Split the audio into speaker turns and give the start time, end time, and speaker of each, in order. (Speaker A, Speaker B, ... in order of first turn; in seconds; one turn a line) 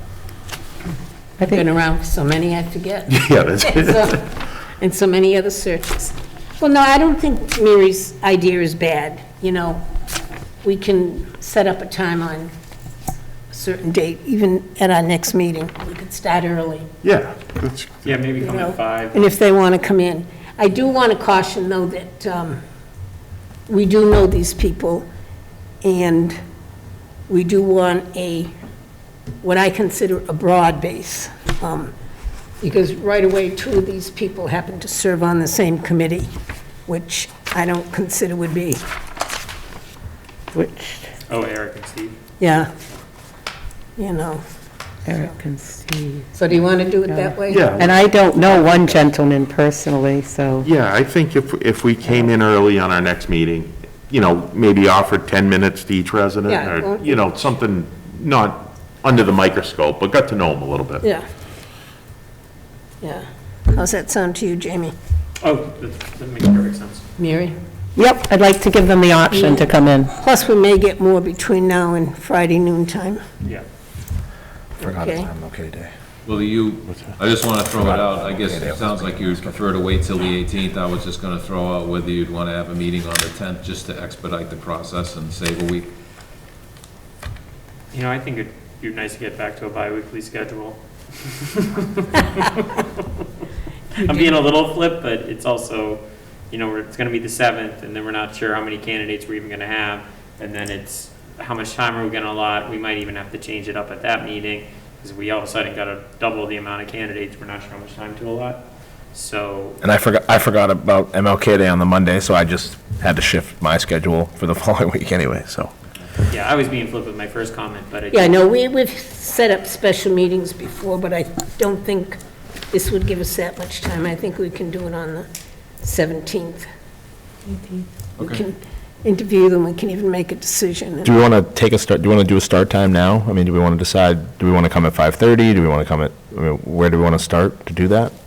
Speaker A: 1.4-9.8
Speaker B: 3.1-4.2
Speaker A: 10.6-12.5
Speaker A: 13.5-16.9
Speaker B: 17.0-18.1
Speaker C: 18.0-19.2
Speaker A: 18.4-22.6
Speaker A: 23.7-25.1
Speaker A: 25.8-26.4
Speaker A: 27.3-28.5
Speaker A: 29.4-31.9
Speaker A: 32.6-36.3
Speaker A: 36.9-38.8
Speaker D: 40.5-41.1
Speaker C: 41.3-42.2
Speaker A: 42.4-42.7
Speaker A: 44.0-44.4
Speaker D: 45.0-46.4
Speaker A: 46.3-47.8
Speaker D: 47.1-50.7
Speaker B: 47.5-48.0
Speaker B: 48.5-48.9
Speaker B: 50.6-61.0
Speaker A: 56.5-57.2
Speaker A: 63.0-64.9
Speaker C: 65.4-67.0
Speaker A: 67.2-67.5
Speaker D: 68.0-70.1
Speaker A: 69.3-73.2
Speaker E: 74.8-75.9
Speaker A: 74.8-75.3
Speaker F: 76.2-85.9
Speaker E: 77.7-79.6
Speaker C: 87.9-93.0
Speaker C: 93.9-109.8
Speaker E: 109.8-115.7
Speaker C: 116.3-118.4
Speaker A: 118.1-122.2
Speaker A: 122.7-125.3
Speaker A: 125.8-126.7
Speaker D: 127.5-127.8
Speaker A: 128.2-131.2
Speaker E: 131.0-138.1